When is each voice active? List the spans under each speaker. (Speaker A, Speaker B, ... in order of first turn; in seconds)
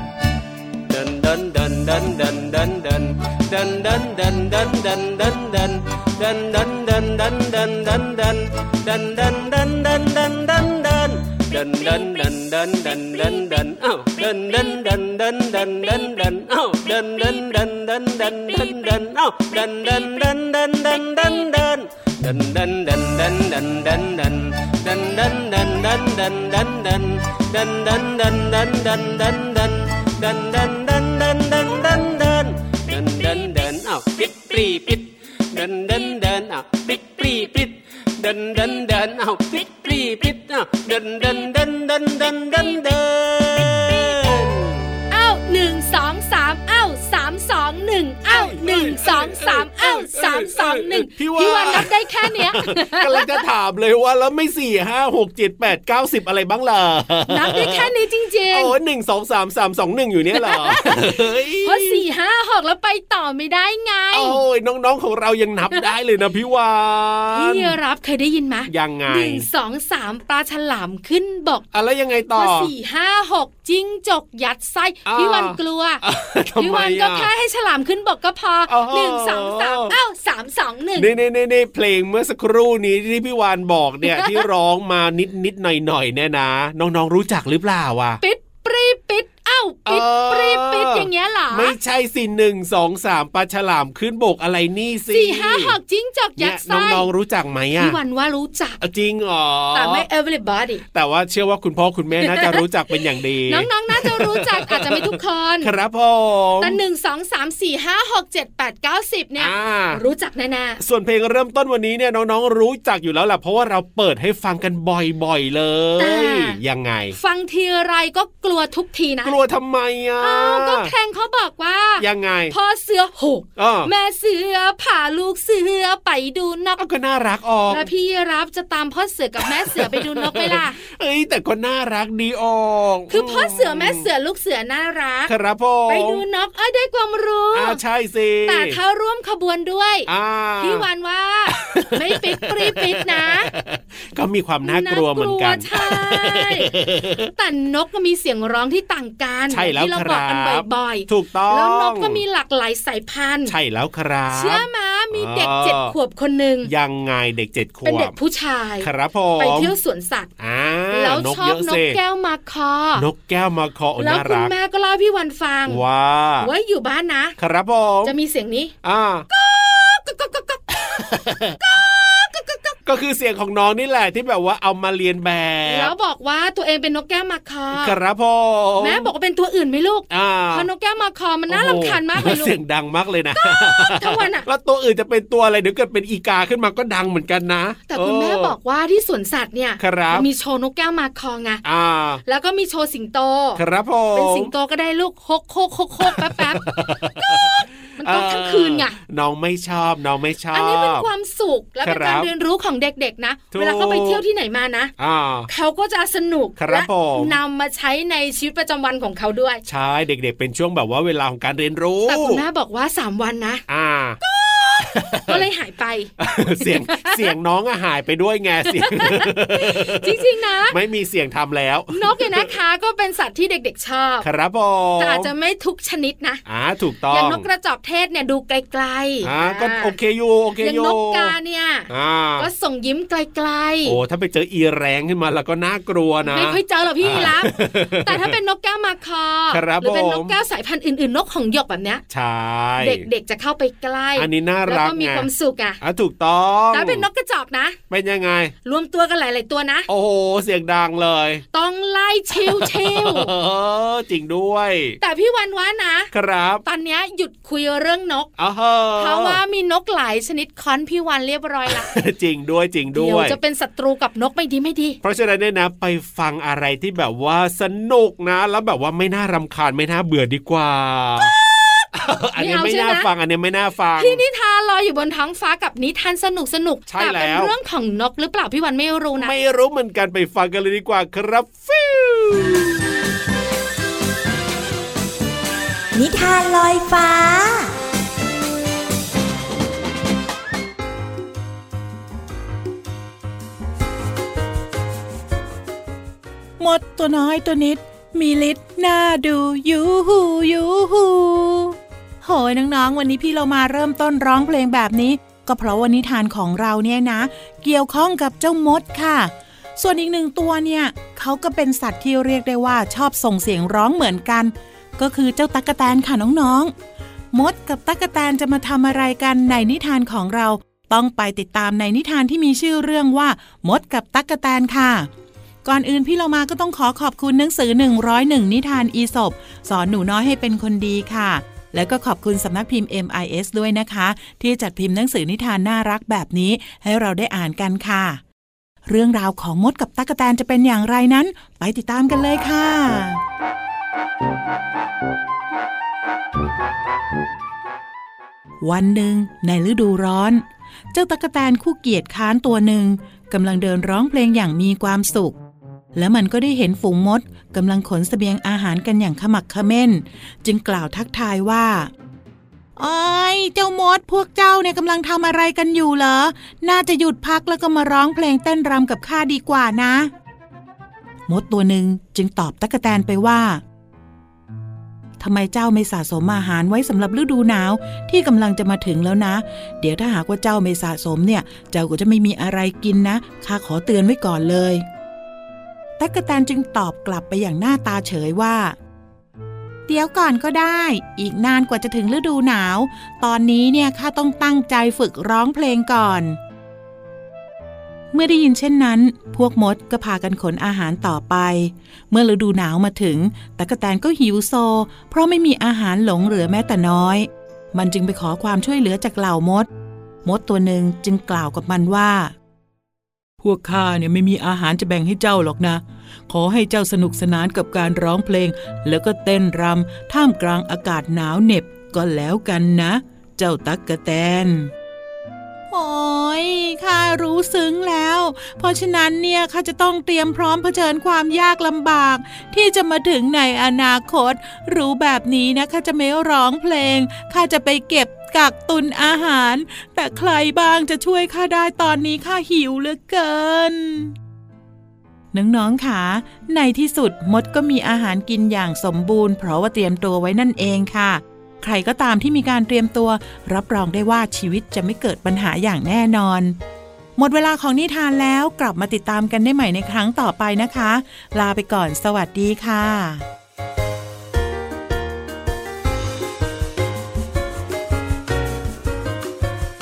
Speaker A: 0.9-44.9
Speaker B: 11.6-12.3, 12.9-13.6, 14.3-14.9, 18.2-19.0, 19.6-20.1, 285.9-287.7
Speaker C: 45.1-53.4, 57.3-58.8, 60.3-64.4, 67.3-71.7, 72.3-76.0, 76.6-81.1, 84.0-84.4, 88.2-91.8, 95.1-97.1, 97.7-98.8, 99.7-100.8, 102.2-105.7, 106.6-110.8, 116.0-116.6, 117.1-119.4, 120.2-126.8, 127.7-130.8, 133.1-135.3, 135.9-137.8, 138.4-143.5, 144.6-146.7, 147.4-153.6, 154.3-156.7, 157.8-160.3, 160.9-163.1, 164.0-165.8, 166.4-167.4, 168.0-168.7, 169.3-172.8, 175.7-177.9, 178.8-182.5, 183.3-184.4, 187.9-191.6, 192.2-193.6, 194.1-199.0, 200.5-204.9, 205.5-209.6, 212.1-213.6, 214.2-217.3, 218.7-220.8, 221.9-224.3, 225.0-226.4, 227.1-230.0, 230.6-234.0, 236.2-242.0, 242.8-245.8, 246.7-247.8, 248.6-249.9, 251.5-253.3, 255.0-256.1, 256.6-258.3, 259.0-261.9, 262.9-265.0, 271.2-273.1, 274.0-279.3
Speaker D: 48.3-57.9, 58.5-62.0, 64.1-67.8, 68.7-69.5, 71.7-72.7, 75.0-77.3, 78.7-79.9, 81.0-88.2, 89.8-95.8, 96.4-98.0, 98.8-100.0, 100.9-106.8, 109.4-110.0, 110.8-117.2, 119.2-120.9, 122.0-122.5, 123.6-123.9, 126.8-127.9, 129.4-134.1, 135.3-136.2, 137.5-138.8, 140.1-140.8, 141.5-147.3, 149.5-152.2, 153.5-155.9, 156.6-158.2, 158.8-159.7, 160.4-162.0, 162.9-164.5, 165.7-166.5, 167.4-168.1, 168.8-169.2, 170.9-171.6, 172.8-175.9, 177.7-179.1, 180.1-180.7, 181.5-188.5, 189.8-190.3, 191.6-192.2, 193.6-194.5, 196.0-201.1, 201.8-202.3, 203.5-204.2, 205.0-205.5, 206.6-207.4, 209.7-212.4, 213.7-214.2, 214.8-215.4, 216.2-222.5, 224.2-225.3, 226.4-227.4, 229.2-231.3, 231.9-232.5, 233.8-238.3, 239.5-240.4, 242.1-243.1, 244.2-245.3, 245.8-247.1, 247.9-248.5, 249.9-251.4, 252.3-255.0, 256.1-256.6, 258.4-259.4, 261.7-263.4, 265.0-271.3, 271.9-274.2, 276.9-277.5, 279.2-282.8
Speaker E: 296.6-316.7, 317.3-325.1, 325.6-338.2, 338.8-343.2, 348.6-355.4, 355.9-361.9, 362.8-370.1, 371.3-373.6, 375.2-384.8, 386.0-388.8, 389.9-396.4, 398.1-409.7, 410.2-412.3, 413.4-424.7, 425.7-444.1, 445.3-456.6, 457.1-463.2